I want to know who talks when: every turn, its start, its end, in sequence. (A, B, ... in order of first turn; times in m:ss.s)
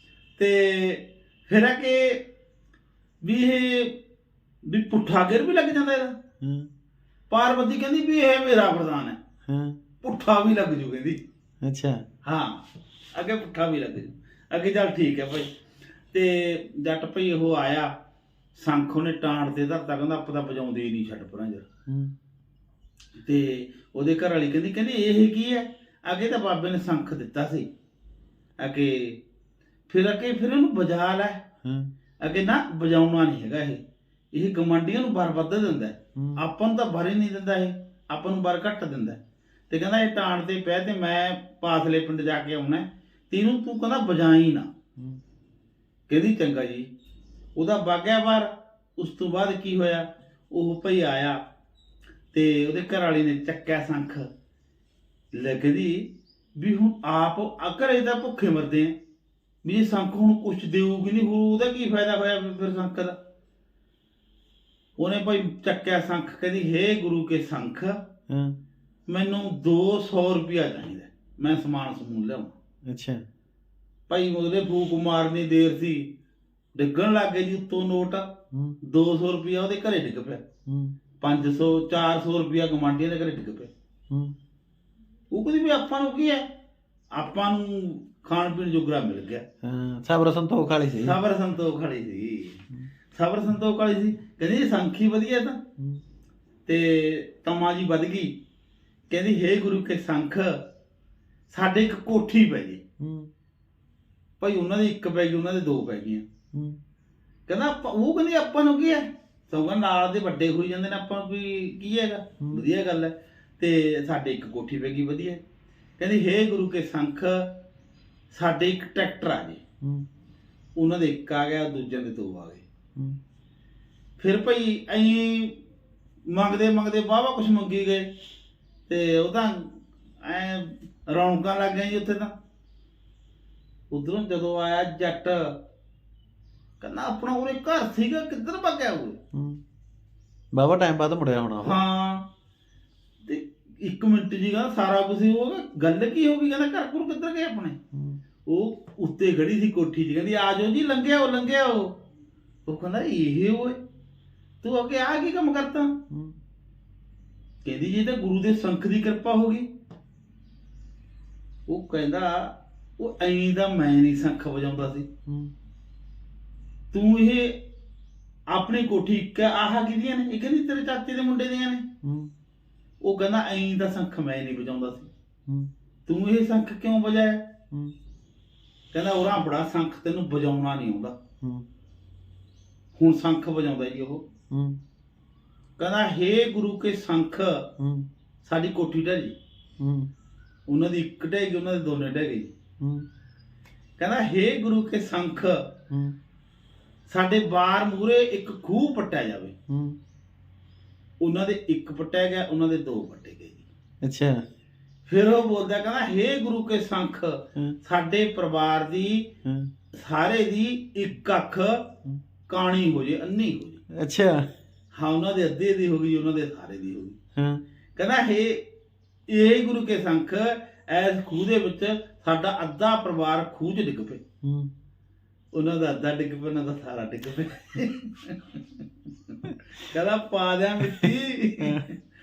0:00.4-0:02.3 A
0:03.2-0:04.0 A
0:04.6-0:06.2 A
0:06.4-0:06.7 B
0:07.3-0:09.2 A
0:09.5-0:09.8 B
0:10.0-0:11.2 A
0:11.6-0:12.0 B
0:12.2-0:15.5 A
0:16.1-0:17.9 A
0:18.5-0:21.7 A
0:21.9-0:22.1 B
0:23.2-0:27.7 A
0:28.6-0:29.2 A
0:29.9-0:31.4 A
0:31.6-0:31.9 B
0:32.2-0:44.7 A
0:36.2-0:36.4 B
0:46.1-0:46.9 A
0:47.6-0:51.5 A
0:52.3-0:54.3 A
0:55.3-0:59.0 A
0:59.6-1:03.2 A
1:05.0-1:08.0 A
1:08.3-1:08.6 B
1:09.1-1:12.6 A
1:12.9-1:13.2 B
1:14.1-1:16.2 A
1:16.7-1:20.5 A
1:18.5-1:18.8 B
1:20.6-1:21.0 B
1:21.2-1:23.7 A
1:24.1-1:24.4 B
1:25.3-1:26.5 A
1:27.1-1:29.4 A
1:29.6-1:31.2 B
1:31.0-1:35.6 A
1:35.8-1:36.0 B
1:36.6-1:38.4 A
1:39.1-1:40.7 A
1:41.5-1:42.8 A
1:43.0-1:43.3 B
1:44.4-1:46.2 A
1:46.5-1:46.8 B
1:47.5-1:55.4 A
1:56.0-1:57.6 A
1:58.3-1:59.6 A
1:59.8-2:00.1 B
2:00.8-2:02.6 A
2:04.2-2:05.6 A
2:06.3-2:08.1 A
2:08.9-2:12.3 A
2:13.9-2:15.6 A
2:16.8-2:19.2 A
2:19.3-2:19.6 B
2:20.5-2:21.8 B
2:21.6-2:22.3 A
2:23.2-2:27.8 A
2:27.9-2:28.2 B
2:28.4-2:32.0 A
2:32.6-2:33.8 A
2:34.6-2:36.0 A
2:36.1-2:36.4 B
2:37.6-2:39.7 A
2:41.7-2:45.1 A
2:45.3-2:45.5 B
2:46.9-2:47.6 A
2:48.5-2:51.9 A
2:52.0-2:52.3 B
2:53.0-2:55.1 A
2:56.1-2:57.5 A
2:58.9-3:01.2 A
3:03.0-3:04.3 A
3:04.5-3:04.8 B
3:05.8-3:07.7 A
3:07.8-3:08.1 B
3:08.4-3:09.4 A
3:09.8-3:10.1 B
3:10.7-3:12.5 A
3:12.8-3:13.1 B
3:14.0-3:15.7 A
3:15.9-3:16.2 B
3:17.1-3:19.6 A
3:19.7-3:20.0 B
3:21.2-3:23.6 A
3:24.0-3:24.4 B
3:25.1-3:29.3 A
3:29.4-3:29.7 B
3:29.9-3:31.9 A
3:32.5-3:33.8 A
3:33.9-3:34.5 B
3:34.9-3:37.2 A
3:37.4-3:37.6 B
3:38.0-3:38.7 A
3:39.3-3:44.2 A
3:44.4-3:44.7 B
3:45.5-3:48.6 A
3:49.7-3:52.0 A